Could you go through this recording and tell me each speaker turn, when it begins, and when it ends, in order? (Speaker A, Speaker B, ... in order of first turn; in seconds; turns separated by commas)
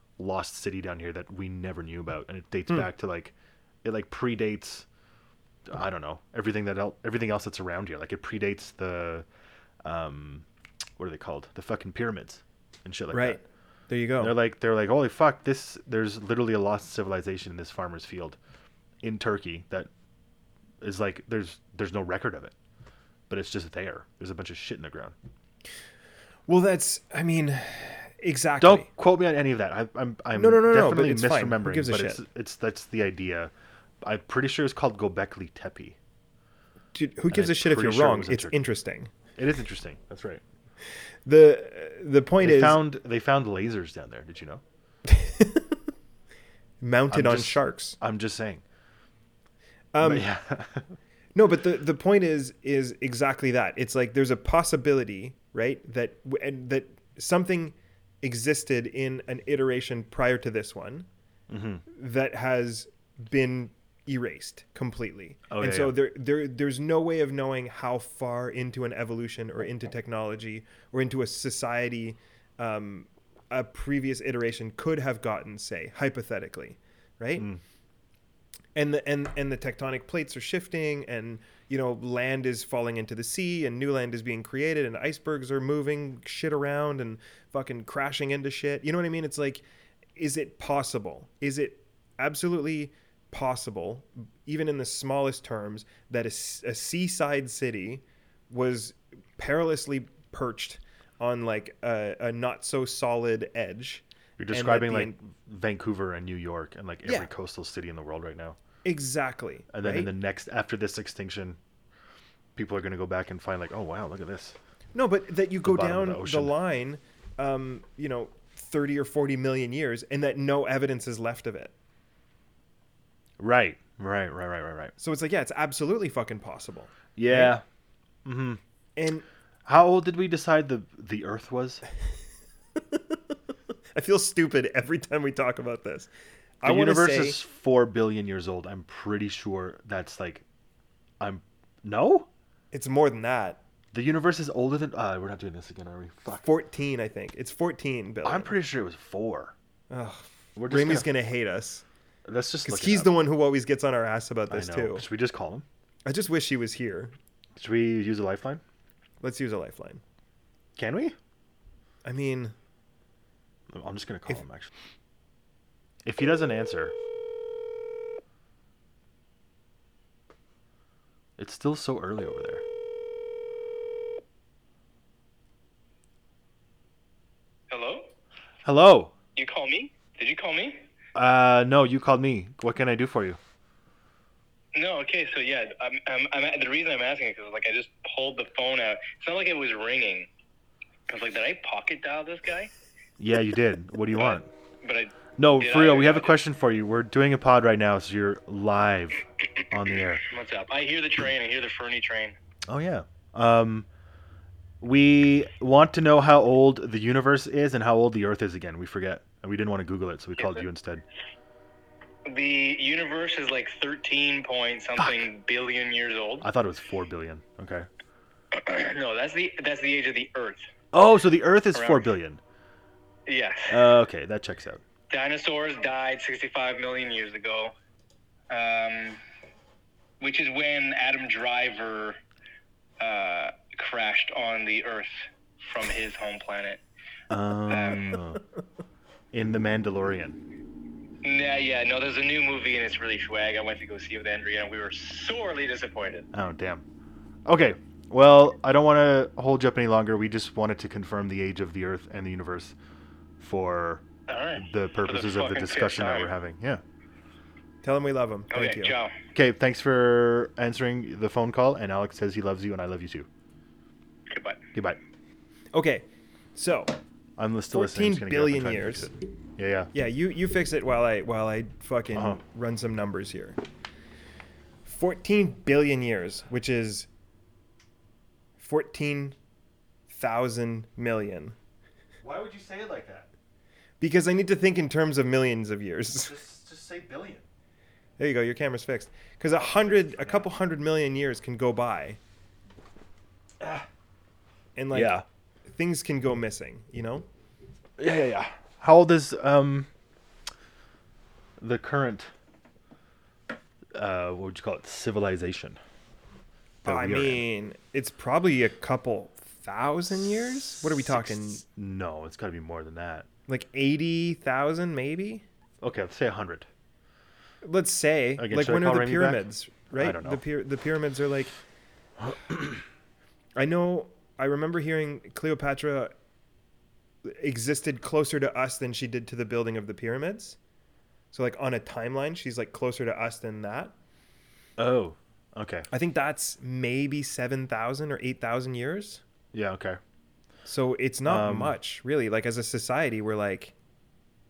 Speaker A: 0.2-4.9, Speaker A: 5.7-9.3, Speaker A: 9.8-10.5, Speaker A: 11.0-13.4, Speaker B: 13.1-14.3, Speaker A: 14.2-18.4, Speaker A: 19.0-19.9, Speaker A: 20.8-22.5, Speaker A: 23.3-25.1, Speaker B: 26.5-28.9, Speaker A: 28.6-33.5, Speaker B: 30.3-32.2, Speaker A: 34.0-36.0, Speaker B: 36.9-39.1, Speaker A: 37.3-38.6, Speaker A: 39.4-40.4, Speaker B: 41.2-42.8, Speaker A: 42.4-44.6, Speaker B: 45.1-45.8, Speaker B: 46.8-48.0, Speaker A: 47.1-48.6, Speaker B: 49.9-50.2, Speaker A: 50.0-51.0, Speaker B: 51.4-61.1, Speaker A: 61.5-61.8, Speaker B: 61.9-77.5, Speaker A: 65.5-66.0, Speaker B: 78.8-89.6, Speaker B: 90.2-105.2, Speaker A: 104.4-108.6, Speaker B: 107.0-107.3, Speaker B: 108.8-110.1, Speaker A: 109.7-111.6, Speaker A: 112.6-114.6, Speaker B: 114.9-121.7, Speaker A: 115.7-116.5, Speaker A: 123.4-124.9, Speaker B: 125.0-127.6, Speaker A: 127.2-127.6, Speaker A: 128.2-128.6, Speaker B: 129.0-129.2, Speaker A: 129.7-131.8, Speaker B: 132.8-133.2, Speaker B: 133.9-136.1, Speaker B: 136.6-137.4, Speaker A: 136.7-140.4, Speaker A: 141.2-142.3, Speaker B: 142.7-143.6, Speaker A: 143.9-146.5, Speaker B: 146.4-148.5, Speaker A: 148.2-149.5, Speaker B: 149.9-151.8, Speaker A: 150.6-151.1, Speaker A: 152.3-153.1, Speaker B: 152.7-155.1, Speaker A: 154.5-155.7, Speaker B: 156.1-157.2, Speaker A: 157.6-158.6, Speaker B: 159.2-160.0, Speaker A: 160.8-161.2, Speaker B: 162.0-162.6, Speaker A: 163.7-164.7, Speaker A: 166.1-166.9, Speaker A: 171.4-172.6, Speaker C: 177.7-178.1, Speaker A: 178.7-179.1, Speaker C: 179.4-180.9, Speaker A: 181.2-183.4, Speaker C: 184.7-190.3, Speaker C: 191.1-192.7, Speaker A: 193.2-194.5, Speaker C: 194.1-196.4, Speaker A: 195.4-200.2, Speaker C: 200.2-202.4, Speaker A: 202.7-203.9, Speaker A: 204.8-211.0, Speaker C: 210.4-210.7, Speaker C: 212.3-216.5, Speaker A: 215.0-215.2, Speaker A: 216.4-217.9, Speaker C: 218.5-220.7, Speaker A: 220.9-222.4, Speaker C: 221.7-222.1, Speaker C: 223.3-223.8, Speaker A: 223.7-224.8, Speaker C: 225.1-227.7, Speaker C: 228.5-229.2, Speaker C: 230.2-232.2, Speaker C: 233.0-236.8, Speaker A: 237.3-238.4, Speaker C: 237.7-238.2, Speaker A: 239.3-240.4, Speaker C: 241.2-246.3, Speaker A: 246.3-246.8, Speaker A: 247.5-252.8, Speaker A: 253.4-254.1, Speaker C: 254.3-256.3, Speaker A: 254.6-256.8, Speaker B: 257.8-258.9, Speaker C: 258.5-259.1, Speaker A: 259.3-263.3, Speaker C: 264.3-264.6, Speaker B: 265.7-267.0, Speaker A: 267.4-269.9, Speaker B: 267.7-269.1, Speaker B: 269.9-273.6, Speaker A: 272.1-272.4, Speaker B: 274.9-277.1, Speaker B: 278.6-279.4, Speaker B: 280.1-281.6, Speaker A: 282.2-283.3, Speaker B: 284.0-286.4, Speaker A: 286.2-287.4, Speaker B: 288.2-292.2, Speaker A: 290.1-290.4, Speaker A: 293.6-293.9, Speaker B: 294.8-297.3, Speaker A: 294.9-295.2, Speaker A: 298.0-299.9, Speaker A: 301.6-302.3, Speaker A: 303.9-305.8, Speaker A: 306.8-307.4, Speaker B: 306.9-311.6, Speaker A: 310.8-313.3, Speaker B: 313.5-315.4, Speaker A: 315.8-316.7, Speaker B: 317.6-321.5, Speaker A: 318.4-319.5, Speaker A: 320.0-320.4, Speaker A: 322.2-322.8, Speaker B: 323.6-326.1, Speaker B: 327.2-330.6, Speaker B: 331.3-333.9, Speaker A: 334.8-335.9, Speaker B: 335.9-339.2, Speaker A: 339.5-340.0, Speaker B: 340.7-343.7, Speaker A: 341.3-341.8